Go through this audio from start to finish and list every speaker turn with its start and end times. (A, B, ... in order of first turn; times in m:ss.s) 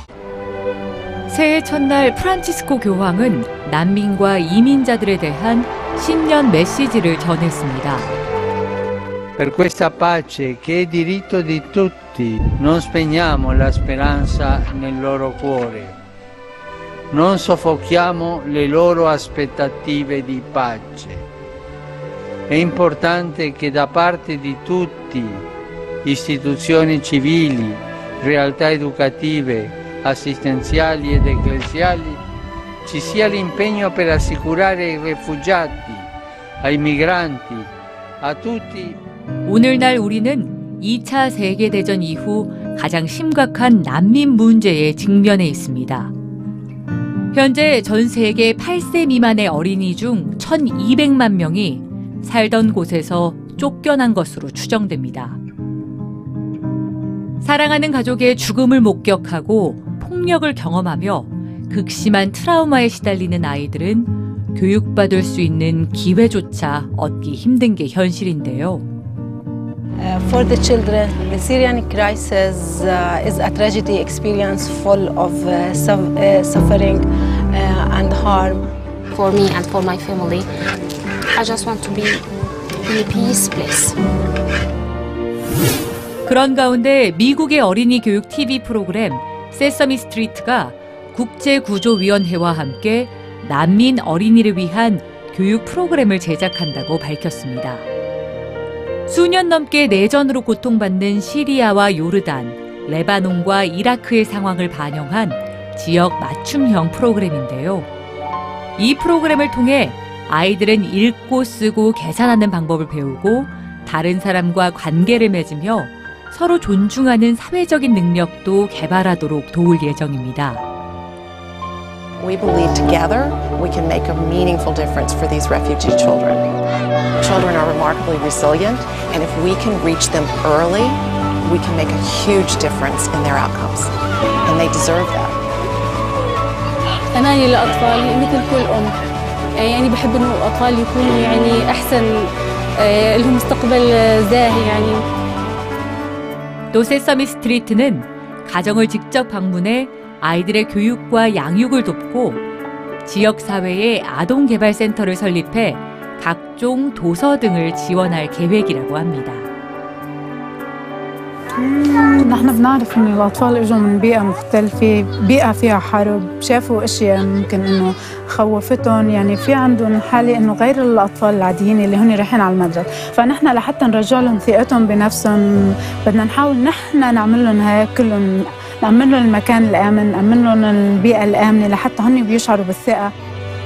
0:01.3-0:08.1 A
0:09.4-0:15.9 B
0:17.1-0:21.2 B
0:22.5-0:25.4 B
0:26.0-0:32.2 B
0:32.8-0:36.1 B
0:36.6-0:37.7 B
0:38.2-0:39.0 B
0:39.4-0:46.1 A
0:47.3-0:55.4 A
0:57.4-1:08.8 A
1:10.0-1:18.6 C
1:19.2-1:20.4 D
1:21.3-1:22.2 D
1:22.9-1:24.0 D
1:26.2-1:37.8 A
1:39.1-1:47.9 A
1:48.8-2:00.6 A
2:02.2-2:06.5 E
2:07.2-2:13.9 E
2:14.4-2:15.4 E
2:17.1-2:18.9 F
2:19.6-2:22.1 F
2:22.8-2:25.0 F
2:26.7-2:32.4 A
2:33.0-2:39.5 A
2:41.6-2:55.4 G
2:56.0-2:58.3 G
2:58.8-3:03.1 G